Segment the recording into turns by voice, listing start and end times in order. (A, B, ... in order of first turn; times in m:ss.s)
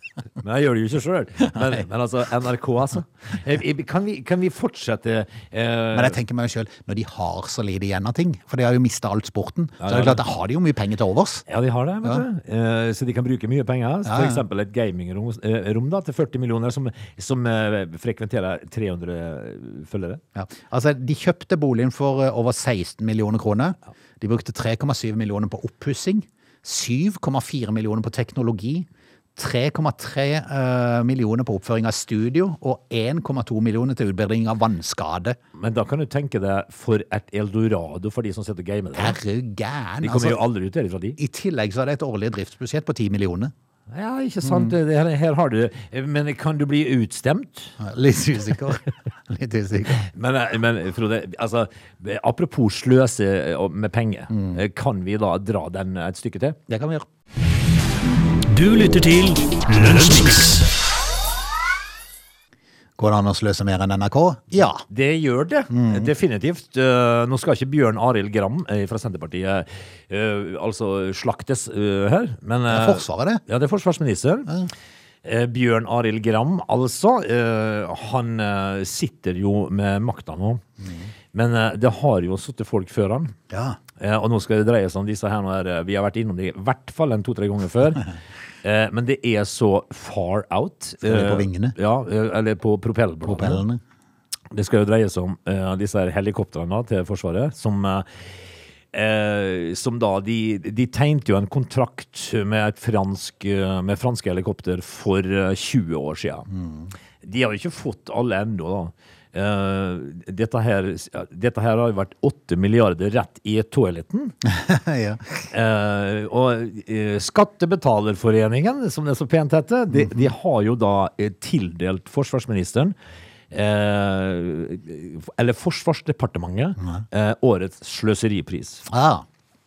0:00.4-0:06.2 A
0:05.9-0:11.4 B
0:09.8-0:10.2 A
0:11.5-0:20.2 A
0:14.0-0:14.4 B
0:20.4-0:35.4 B
0:35.6-0:39.2 A
0:39.0-0:40.4 B
0:40.0-0:41.2 A
0:41.2-0:43.5 B
0:43.9-0:47.8 A
0:44.4-0:44.7 B
0:47.8-0:50.1 B
0:50.0-0:56.6 A
0:54.3-0:54.6 B
0:56.7-0:57.1 B
0:58.5-1:00.7 C
1:03.0-1:04.8 B
1:04.9-1:14.5 A
1:05.7-1:06.1 B
1:12.7-1:13.4 B
1:15.2-1:20.6 A
1:20.8-1:21.1 B
1:21.3-1:23.3 A
1:23.5-1:23.8 B
1:24.0-1:28.1 A
1:28.6-1:33.6 A
1:31.0-1:31.8 B
1:33.2-1:33.8 B
1:34.5-1:38.1 A
1:38.9-1:46.5 A
1:46.5-1:46.9 B
1:47.2-1:54.4 A
1:54.4-1:55.2 B
1:55.5-2:02.9 A
2:00.0-2:00.3 B
2:03.5-2:08.8 A
2:08.9-2:09.2 B